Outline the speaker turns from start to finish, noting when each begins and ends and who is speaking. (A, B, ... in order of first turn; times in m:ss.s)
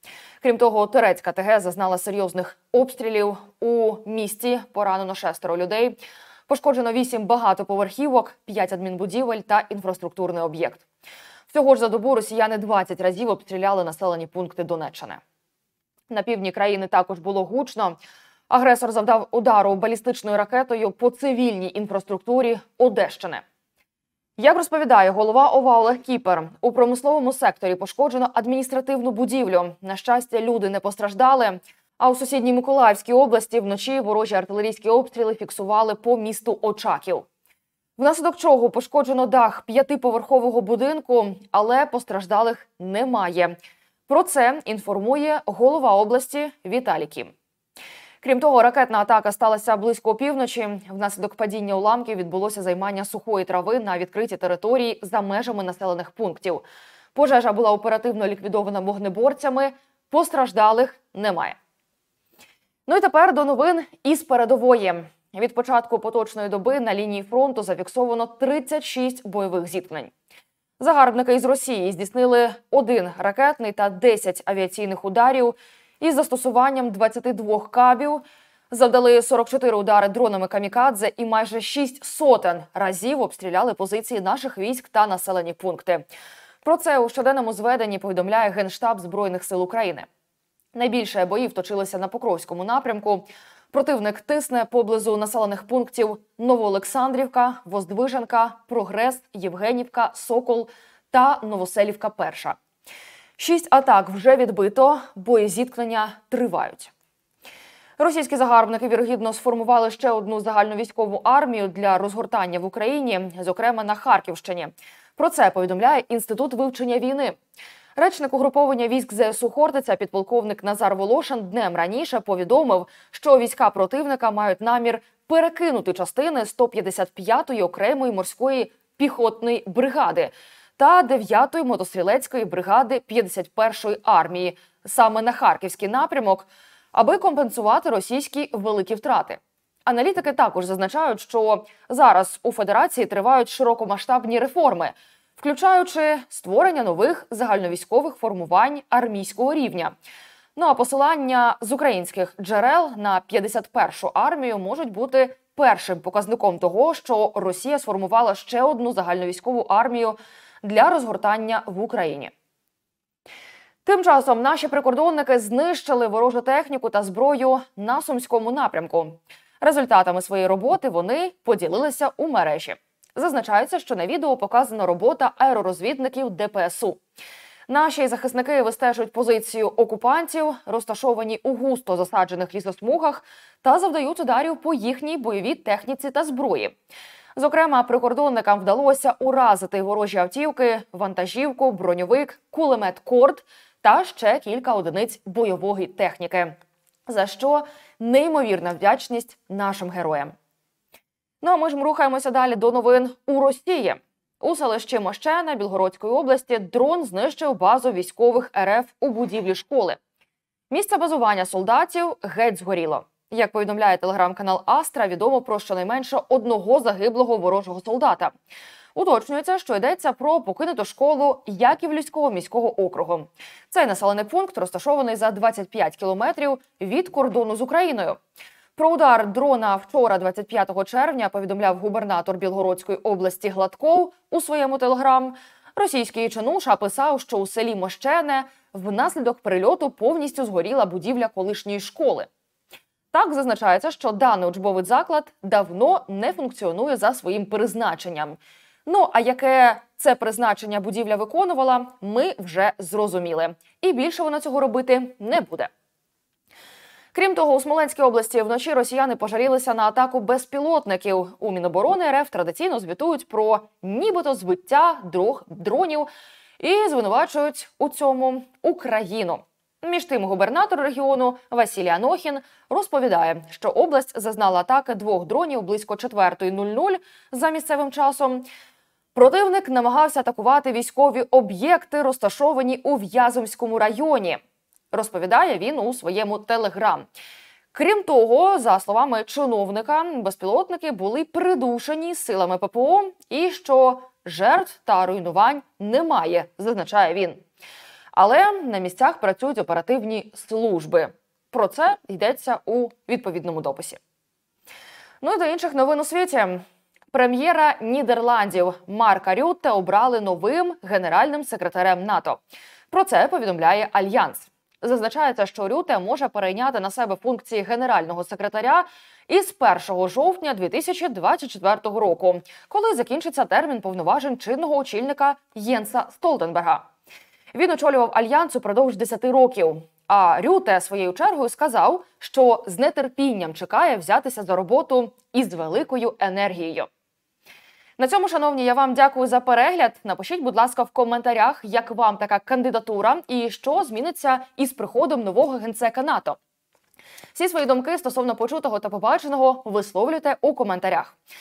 0:00.4-0:10.8 A
0:11.5-0:15.2 A
0:16.1-0:18.0 A
0:18.5-0:23.4 A
0:24.4-0:37.3 A
0:38.0-0:43.6 A
0:44.1-0:47.3 A
0:48.2-1:01.6 A
1:02.9-1:10.1 A
1:10.8-1:26.0 A
1:26.6-1:30.1 A
1:30.7-1:42.6 A
1:43.4-1:46.9 A
1:48.0-1:57.4 A
1:58.0-2:29.9 A
2:30.6-2:42.3 A
2:43.8-2:57.0 A
2:57.7-3:06.7 A
3:07.4-3:16.6 A
3:17.1-3:20.3 A
3:21.4-3:30.0 A
3:30.7-3:38.3 A
3:39.0-3:48.2 A
3:48.8-4:02.3 A
4:03.1-4:15.7 A
4:17.1-4:26.1 A
4:26.6-4:38.5 A
4:39.2-4:44.4 A
4:44.9-4:47.1 A
4:47.7-4:57.4 A
4:58.1-5:04.0 A
5:05.2-5:26.9 A
5:27.5-5:36.9 A
5:38.0-5:46.4 A
5:47.3-5:51.2 A